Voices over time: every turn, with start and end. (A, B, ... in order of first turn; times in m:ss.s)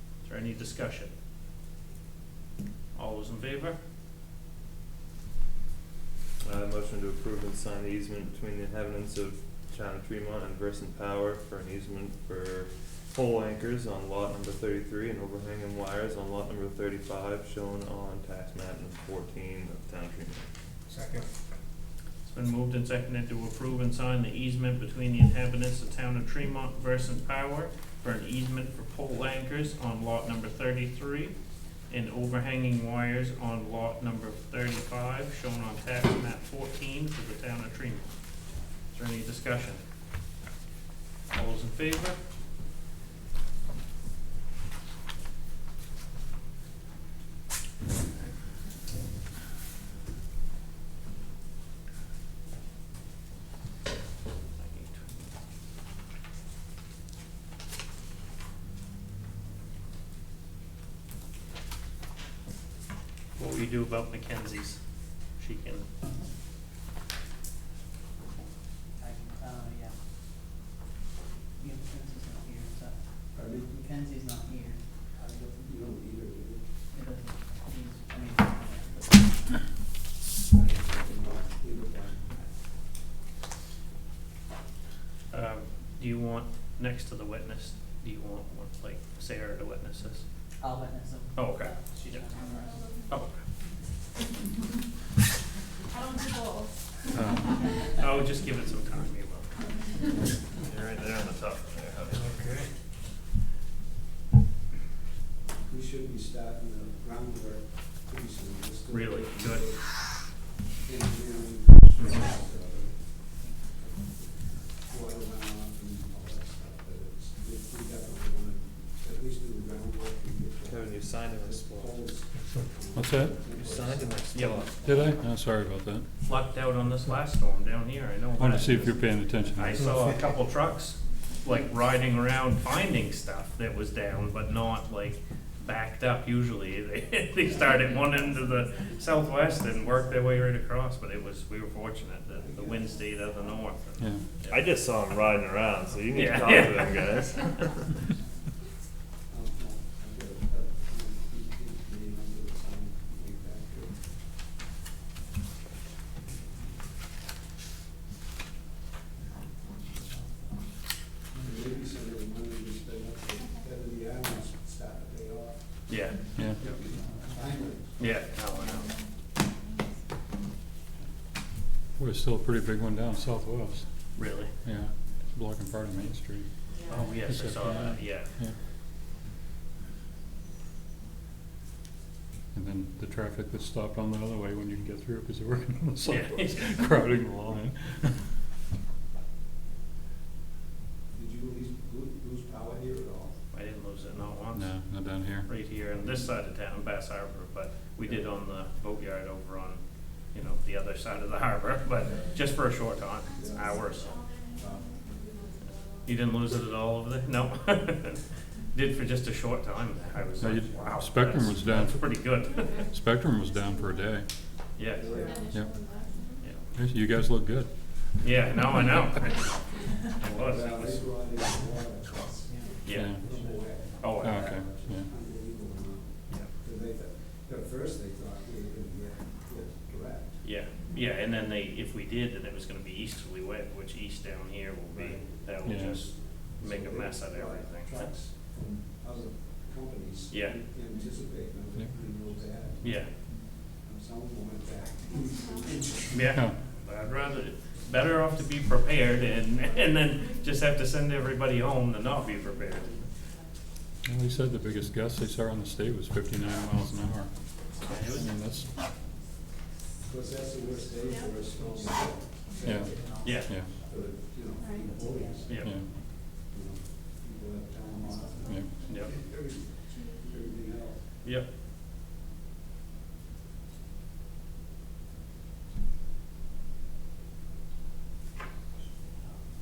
0:00.2-0:01.1 A
0:03.0-0:03.8 A
0:06.4-0:20.5 B
0:22.2-0:31.3 A
0:31.9-0:38.1 A
0:38.9-0:39.8 A
0:41.3-0:42.2 A
0:54.6-0:55.3 A
1:03.3-1:04.8 A
1:05.4-1:05.9 A
1:09.0-1:10.0 C
1:11.6-1:15.7 C
1:13.3-1:13.8 D
1:15.6-1:16.6 D
1:16.9-1:19.6 C
1:20.4-1:22.4 D
1:25.3-1:30.2 A
1:30.6-1:33.0 C
1:31.3-1:32.3 A
1:32.4-1:33.1 E
1:33.1-1:33.4 A
1:35.9-1:36.8 E
1:37.1-1:37.6 F
1:37.9-1:39.8 A
1:40.6-1:42.6 B
1:42.1-1:42.7 A
1:45.6-1:53.1 D
1:48.9-1:49.7 A
1:53.4-1:54.0 C
1:54.2-2:05.2 D
2:00.6-2:02.1 B
2:02.9-2:03.4 F
2:03.5-2:04.9 B
2:04.3-2:04.7 A
2:04.8-2:06.1 F
2:06.2-2:24.6 A
2:08.4-2:10.1 F
2:22.3-2:23.2 D
2:24.4-2:27.8 B
2:26.1-2:27.4 A
2:29.3-2:34.1 D
2:41.4-2:45.6 D
2:45.9-2:46.8 A
2:46.6-2:48.0 D
2:46.8-2:47.5 C
2:48.0-2:49.0 A
2:52.0-2:53.9 F
2:54.2-2:54.5 A
2:54.6-2:58.6 F
2:56.9-2:58.3 A
3:02.5-3:08.2 F
3:06.1-3:06.7 A
3:11.1-3:13.4 D
3:13.5-3:14.8 A
3:14.5-3:15.6 F
3:15.5-3:24.2 A
3:22.0-3:22.4 D
3:23.3-3:26.2 E
3:23.3-3:25.0 D
3:26.0-3:32.8 A
3:30.4-3:34.3 F
3:32.5-3:32.9 E
3:33.5-3:34.1 E
3:34.8-3:35.4 A
3:34.9-3:35.5 D
3:35.0-3:36.5 E
3:35.5-3:35.8 F
3:36.7-3:37.8 F
3:38.2-3:41.1 A
3:40.4-3:50.4 D
3:42.4-3:43.4 C
3:42.8-3:43.2 A
3:42.9-3:43.2 F
3:44.0-3:44.5 A
3:44.2-3:45.1 F
3:50.4-3:58.1 A
3:54.9-4:06.5 D
3:55.7-3:56.0 F
4:00.3-4:00.6 A
4:02.8-4:03.1 A
4:05.2-4:05.7 E
4:06.1-4:13.0 A
4:06.3-4:06.6 F
4:14.0-4:17.5 F
4:17.8-4:18.3 A
4:18.0-4:18.7 F
4:20.1-4:23.0 D
4:21.1-4:21.4 E
4:22.1-4:23.8 C
4:22.6-4:23.7 F
4:23.2-4:23.5 A
4:23.8-4:31.0 D
4:24.8-4:25.6 C
4:25.5-4:25.7 A
4:25.5-4:25.9 F
4:27.8-4:28.1 C
4:28.4-4:28.7 F
4:28.9-4:29.1 A
4:29.9-4:30.4 E
4:31.2-4:31.5 A